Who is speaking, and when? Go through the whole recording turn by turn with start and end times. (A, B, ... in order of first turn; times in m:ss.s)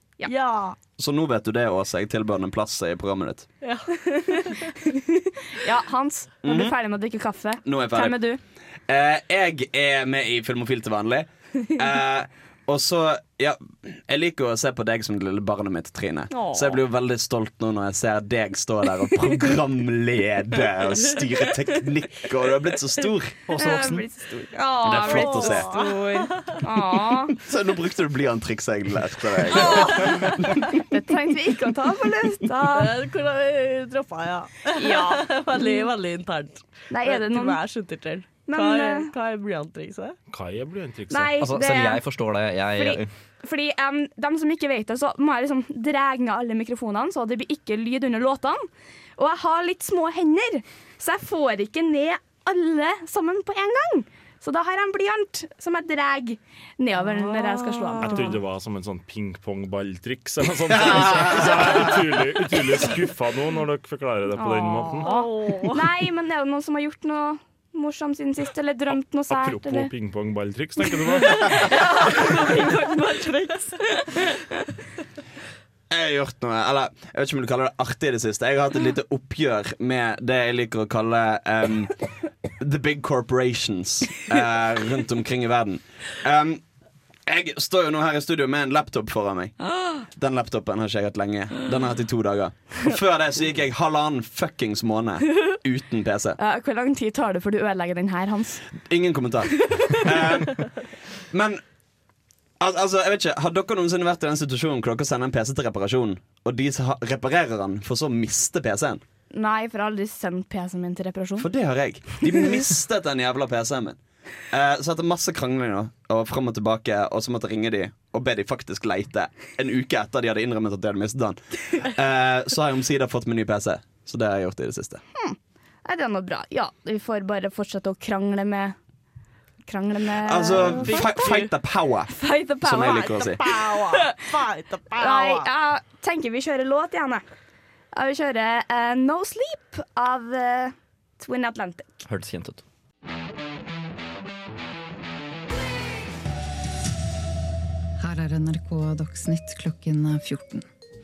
0:00.3-0:00.8 A
0:01.0-0:03.5 B
0:03.6-0:04.7 A
0:04.0-0:08.4 C
0:06.4-0:06.8 B
0:07.6-0:08.2 B
0:08.9-0:23.8 B
0:16.3-0:16.8 C
0:23.5-0:27.3 C
0:23.6-0:24.0 D
0:24.8-0:25.7 B
0:25.0-0:26.5 A
0:27.1-0:30.8 B
0:29.5-0:30.4 A
0:29.5-0:32.9 C
0:32.7-0:40.2 A
0:34.8-0:35.9 C
0:36.9-0:37.6 C
0:38.5-0:39.1 C
0:40.3-0:41.4 E
0:41.1-0:42.0 C
0:41.4-0:43.1 D
0:42.8-0:48.7 C
0:49.2-0:58.4 C
0:57.0-0:58.4 A
0:58.0-1:05.1 E
1:00.7-1:01.9 B
1:04.4-1:09.9 C
1:05.0-1:05.8 A
1:09.3-1:11.7 E
1:10.8-1:14.4 C
1:15.9-1:22.0 B
1:22.6-1:26.6 B
1:27.3-1:36.4 B
1:36.4-1:38.6 C
1:38.9-1:41.6 B
1:39.7-1:40.1 C
1:42.6-1:49.0 B
1:49.3-1:51.5 C
1:51.4-1:54.0 B
1:54.5-2:05.0 B
2:05.2-2:08.8 C
2:09.7-2:11.1 C
2:10.2-2:12.1 B
2:10.7-2:11.5 A
2:12.1-2:14.2 C
2:12.6-2:13.4 B
2:13.2-2:15.5 A
2:15.0-2:17.2 C
2:17.9-2:22.0 C
2:22.1-2:22.6 D
2:28.0-2:30.7 F